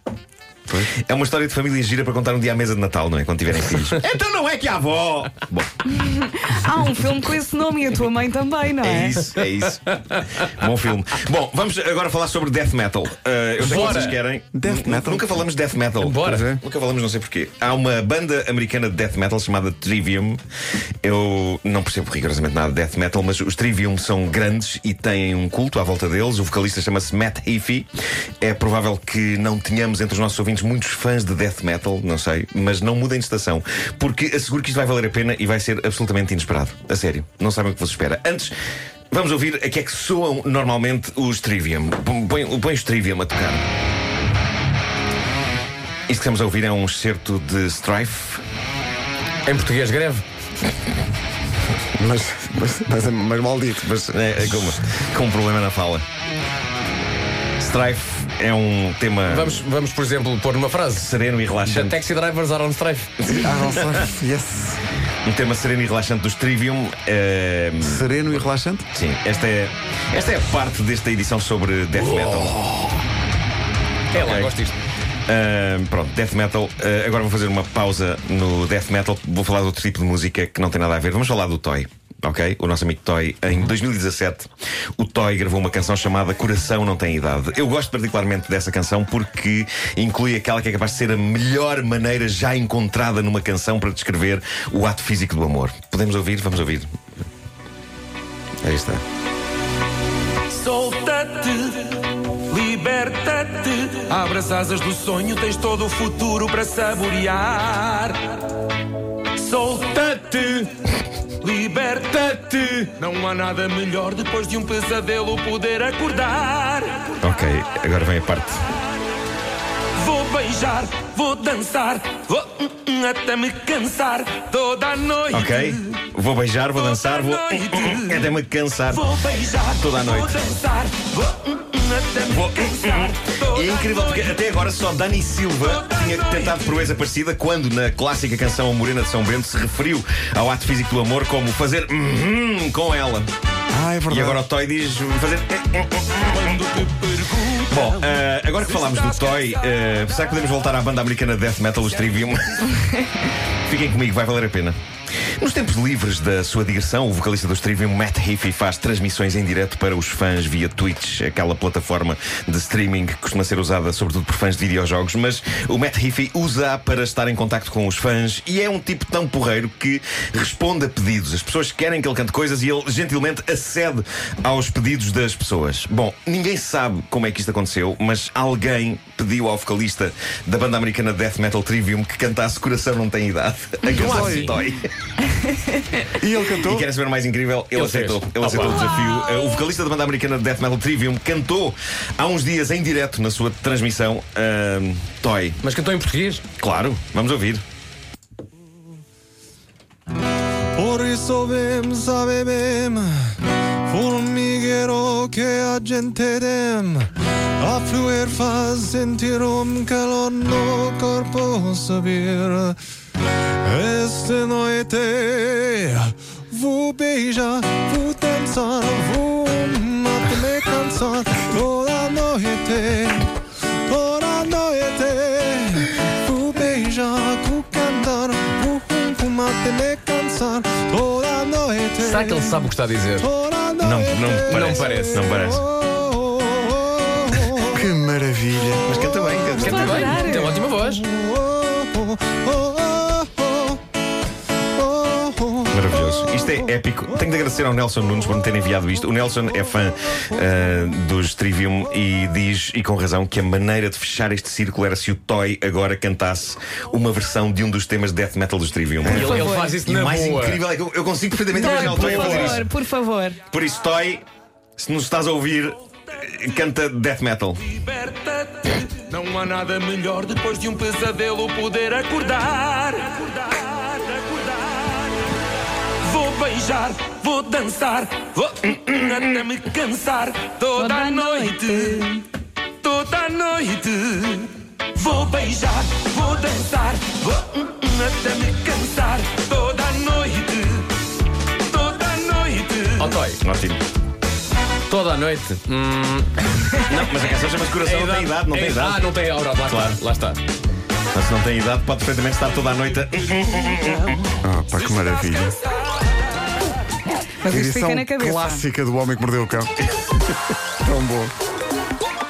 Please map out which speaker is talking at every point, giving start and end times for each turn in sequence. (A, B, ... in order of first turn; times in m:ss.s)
0:00.9-0:05.9 A
0:05.9-0:09.2 B
0:08.8-0:20.4 A
0:09.4-0:10.4 C
0:13.6-0:14.2 C
0:14.5-0:15.3 D
0:16.0-0:16.5 C
0:16.2-0:16.6 D
0:21.0-0:27.9 A
0:28.4-0:38.5 A
0:39.1-0:43.6 A
0:46.1-0:48.4 A
0:49.4-0:50.2 C
0:52.0-0:53.9 D
0:53.8-0:56.0 A
0:57.6-0:59.6 A
0:59.3-1:01.1 C
1:00.9-1:02.0 A
1:01.6-1:03.1 C
1:03.2-1:04.1 A
1:03.3-1:04.8 D
1:05.2-1:08.0 A
1:07.8-1:08.9 D
1:08.9-1:12.6 A
1:12.0-1:12.9 C
1:14.1-1:14.8 C
1:14.1-1:14.5 A
1:15.3-1:36.9 A
1:38.6-1:39.0 A
1:40.5-1:48.4 E
1:49.3-1:50.7 E
1:51.4-1:57.2 E
1:57.2-1:58.6 A
2:00.0-2:05.9 E
2:05.3-2:09.0 A
2:06.8-2:08.3 E
2:08.9-2:14.4 E
2:09.8-2:10.4 A
2:12.3-2:23.3 A
2:15.6-2:17.0 E
2:23.7-2:24.4 D
2:24.1-2:26.6 A
2:26.3-2:29.8 E
2:27.7-2:32.8 A
2:33.6-2:34.8 A
2:35.4-3:04.9 A
3:03.9-3:04.6 C
3:03.9-3:04.6 D
3:06.0-3:06.8 D
3:06.6-3:15.6 A
3:07.7-3:09.0 C
3:15.6-3:16.4 C
3:16.6-3:17.6 A
3:20.7-3:23.1 F
3:23.9-3:32.8 F
3:33.6-3:43.2 F
3:43.9-3:52.4 F
3:48.4-3:49.3 D
3:52.0-3:53.3 C
3:53.2-3:57.7 F
3:53.8-3:55.6 A
3:54.4-3:55.4 C
3:57.6-3:59.2 D
3:58.8-4:00.2 A
3:59.5-4:00.0 F
3:59.5-4:00.6 B
3:59.6-4:01.0 C
4:00.8-4:03.7 F
4:05.7-4:22.7 A
4:19.0-4:20.6 C
4:19.1-4:19.8 B
4:21.5-4:23.4 B
4:23.5-4:24.2 A
4:24.8-4:27.7 A
4:27.7-4:35.2 E
4:36.0-4:42.2 E
4:40.7-4:42.2 B
4:42.8-4:51.0 E
4:51.6-4:53.2 E
4:53.0-4:53.4 C
4:53.4-4:53.8 A
4:54.9-4:57.2 C
4:56.9-4:59.1 A
4:57.8-5:00.4 C
4:59.7-5:00.0 A
5:01.1-5:04.3 A
5:04.4-5:05.6 D
5:04.8-5:06.2 E
5:07.4-5:08.6 B
5:07.4-5:09.8 D
5:10.8-5:11.3 D